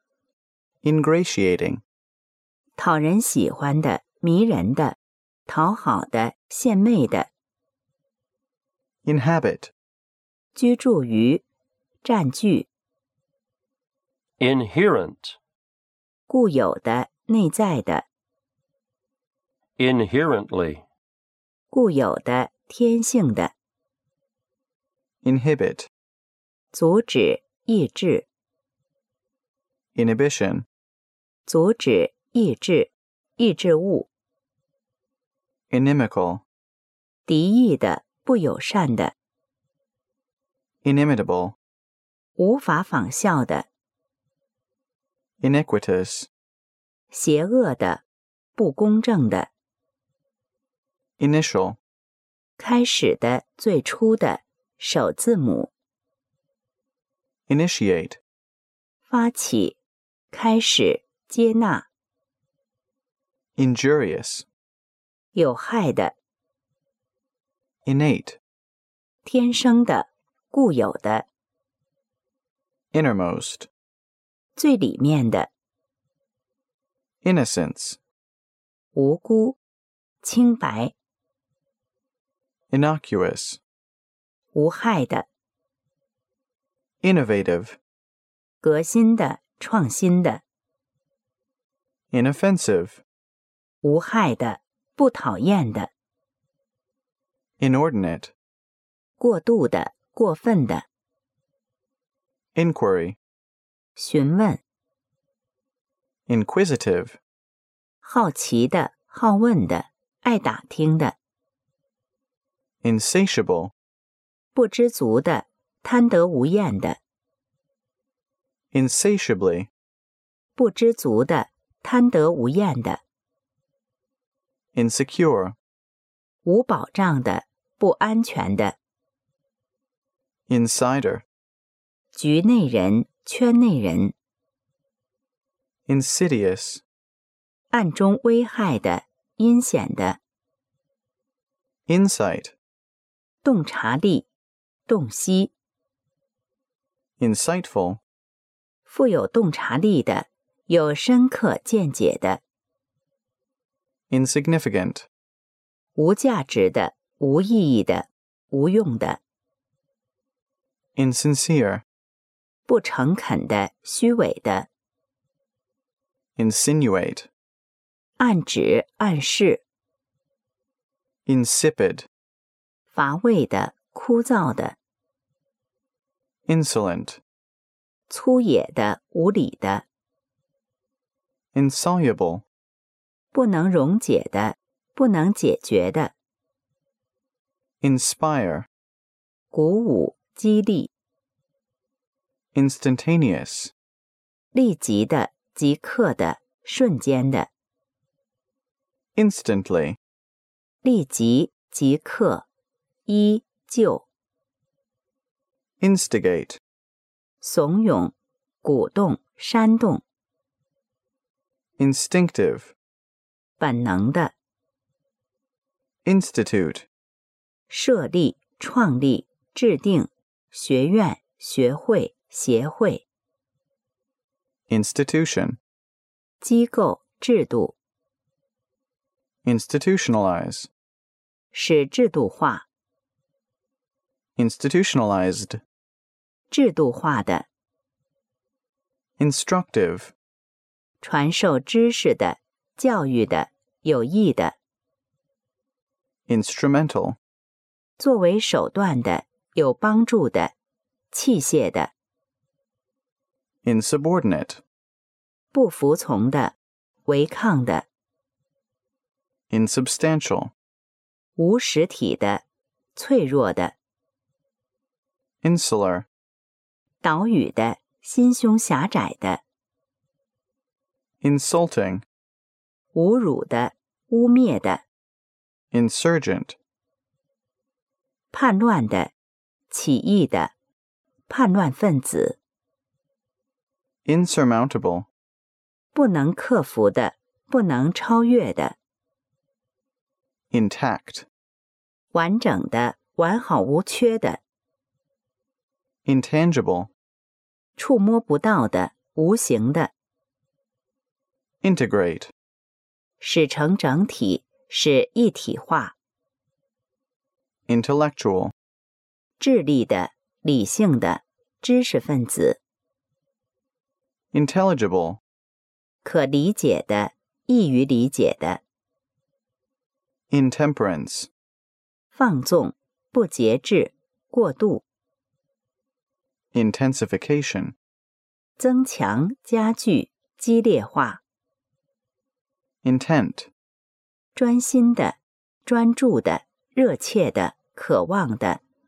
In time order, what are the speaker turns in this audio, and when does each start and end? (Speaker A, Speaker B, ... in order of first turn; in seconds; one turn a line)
Speaker A: 0.8-1.8
Speaker B: 2.8-5.0
Speaker B: 5.5-7.3
Speaker A: 9.1-9.7
Speaker B: 10.5-11.4
Speaker B: 12.0-12.7
Speaker C: 14.4-15.4
Speaker B: 16.3-18.1
Speaker C: 19.8-20.8
Speaker B: 21.7-23.5
Speaker A: 25.2-25.9
Speaker B: 26.7-28.3
Speaker A: 29.9-30.7
Speaker B: 31.5-34.1
Speaker A: 35.7-36.4
Speaker B: 37.3-39.1
Speaker A: 40.8-41.6
Speaker B: 42.4-43.7
Speaker A: 45.4-46.3
Speaker B: 47.1-48.0
Speaker B: 48.6-49.5
Speaker A: 51.2-51.8
Speaker B: 52.6-55.7
Speaker A: 57.5-58.2
Speaker B: 59.1-59.8
Speaker B: 60.3-61.9
Speaker A: 63.6-64.5
Speaker B: 65.3-66.2
Speaker A: 67.8-68.4
Speaker B: 69.2-71.3
Speaker A: 72.9-73.7
Speaker B: 74.6-75.5
Speaker A: 77.2-78.0
Speaker B: 78.9-79.6
Speaker B: 80.2-80.9
Speaker A: 82.7-83.6
Speaker B: 84.5-85.3
Speaker A: 87.0-87.8
Speaker B: 88.6-90.4
Speaker A: 92.1-93.0
Speaker B: 93.8-95.9
Speaker A: 97.6-98.3
Speaker B: 99.2-100.9
Speaker A: 102.5-103.2
Speaker B: 104.0-104.6
Speaker A: 106.3-107.2
Speaker B: 108.0-111.2
Speaker A: 112.8-113.7
Speaker B: 114.5-117.0
Speaker A: 118.7-119.7
Speaker B: 120.6-123.0
Speaker A: 124.8-125.6
Speaker B: 126.5-128.8
Speaker A: 130.5-131.2
Speaker B: 132.1-134.1
Speaker A: 135.9-136.8
Speaker B: 137.7-140.2
Speaker A: 141.9-142.6
Speaker B: 143.4-144.3
Speaker B: 144.9-145.5
Speaker A: 147.2-148.0
Speaker B: 148.9-152.4
Speaker A: 154.1-155.1
Speaker B: 156.0-159.2
Speaker A: 161.0-161.8
Speaker B: 162.7-164.7
Speaker A: 166.4-167.3
Speaker B: 168.2-169.6
Speaker A: 171.3-172.1
Speaker B: 172.9-174.8
Speaker A: 176.5-177.2
Speaker B: 178.1-179.9
Speaker A: 181.5-182.4
Speaker B: 183.3-186.1
Speaker A: 187.8-188.7
Speaker B: 189.5-190.9
Speaker A: 192.5-193.7
Speaker B: 194.5-197.5
Speaker A: 199.2-200.0
Speaker B: 200.8-202.4
Speaker B: 203.1-204.1
Speaker A: 205.8-206.6
Speaker B: 207.4-210.0
Speaker A: 211.8-212.7
Speaker B: 213.6-214.3
Speaker A: 216.1-216.9
Speaker B: 217.7-223.0
Speaker A: 224.7-225.6
Speaker B: 226.4-227.8
Speaker A: 229.4-230.7
Speaker B: 231.5-232.7
Speaker A: 234.4-235.6
Speaker B: 236.5-237.5
Speaker A: 239.2-240.1
Speaker B: 241.0-244.6
Speaker A: 246.3-247.2
Speaker B: 248.0-250.5
Speaker B: 251.1-251.9
Speaker A: 253.6-254.6
Speaker B: 255.5-256.6
Speaker B: 257.1-257.9
Speaker A: 259.5-260.5
Speaker B: 261.4-262.4
Speaker B: 262.9-263.8
Speaker A: 265.4-266.1
Speaker B: 267.0-269.4
Speaker A: 271.2-272.1
Speaker B: 272.9-274.8
Speaker A: 275.7-276.6
Speaker B: 278.3-279.1
Speaker B: 279.7-280.5
Speaker B: 281.3-282.4
Speaker A: 284.1-285.1
Speaker B: 285.9-288.8
Speaker A: 290.5-291.3
Speaker B: 292.1-294.4
Speaker A: 296.1-296.9
Speaker B: 297.8-299.9
Speaker A: 301.6-302.3
Speaker B: 303.2-305.9
Speaker A: 307.7-308.5
Speaker B: 309.4-312.6
Speaker A: 314.3-315.2
Speaker B: 316.0-318.6
Speaker A: 320.3-321.3
Speaker B: 322.1-324.8
Speaker A: 326.5-327.8
Speaker B: 328.6-331.2
Speaker A: 332.8-333.5
Speaker B: 334.4-338.6